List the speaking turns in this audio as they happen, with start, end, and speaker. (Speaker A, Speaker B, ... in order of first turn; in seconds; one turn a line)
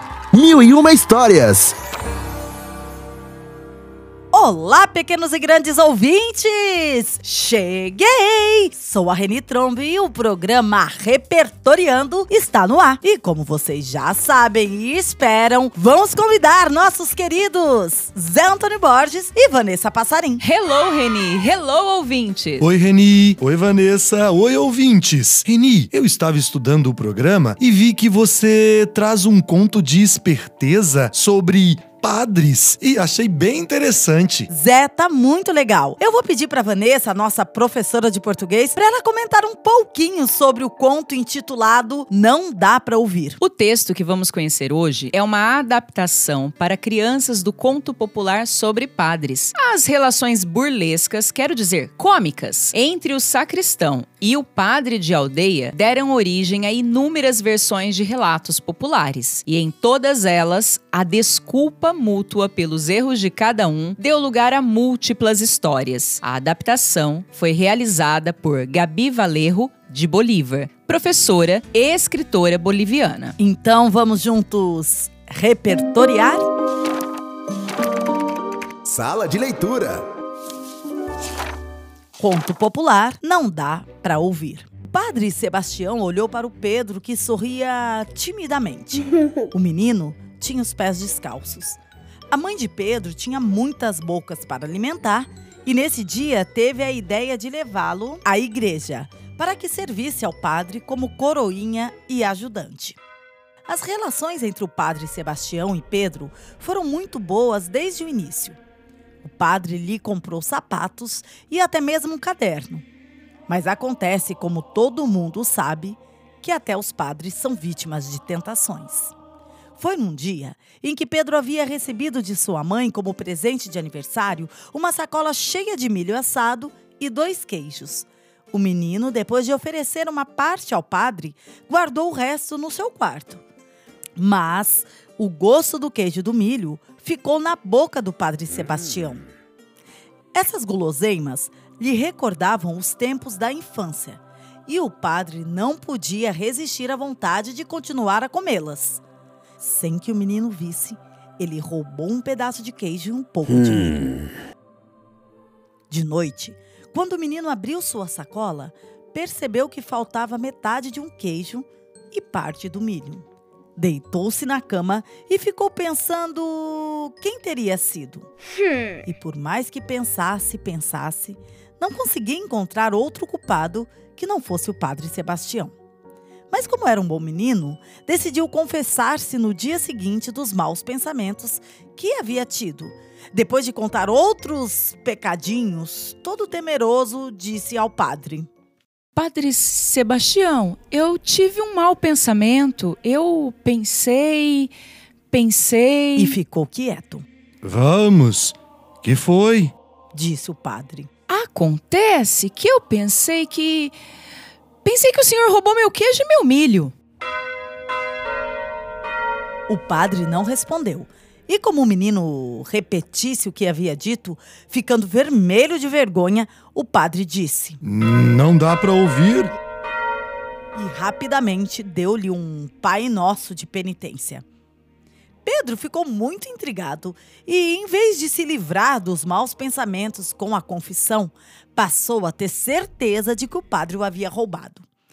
Speaker A: 0.3-1.7
Speaker B: 4.3-20.4
Speaker C: 20.4-22.7
Speaker D: 22.6-34.5
Speaker B: 34.5-43.4
Speaker C: 43.4-73.3
Speaker B: 73.4-76.4
Speaker A: 78.9-80.0
Speaker B: 82.2-91.8
Speaker B: 92.3-103.0
Speaker B: 103.7-108.6
Speaker B: 109.2-112.8
Speaker B: 113.5-119.1
Speaker B: 119.8-133.4
Speaker B: 134.2-139.3
Speaker B: 140.3-149.0
Speaker B: 149.6-154.2
Speaker B: 155.9-168.3
Speaker B: 169.1-175.7
Speaker B: 176.5-188.5
Speaker C: 189.2-194.7
Speaker C: 195.3-196.3
Speaker B: 196.2-197.2
Speaker D: 197.6-199.7
Speaker B: 200.1-201.1
Speaker C: 201.3-203.9
Speaker C: 204.8-206.9
Speaker B: 209.7-217.8
Speaker D: 217.8-219.5
Speaker B: 220.8-224.4
Speaker B: 225.4-234.8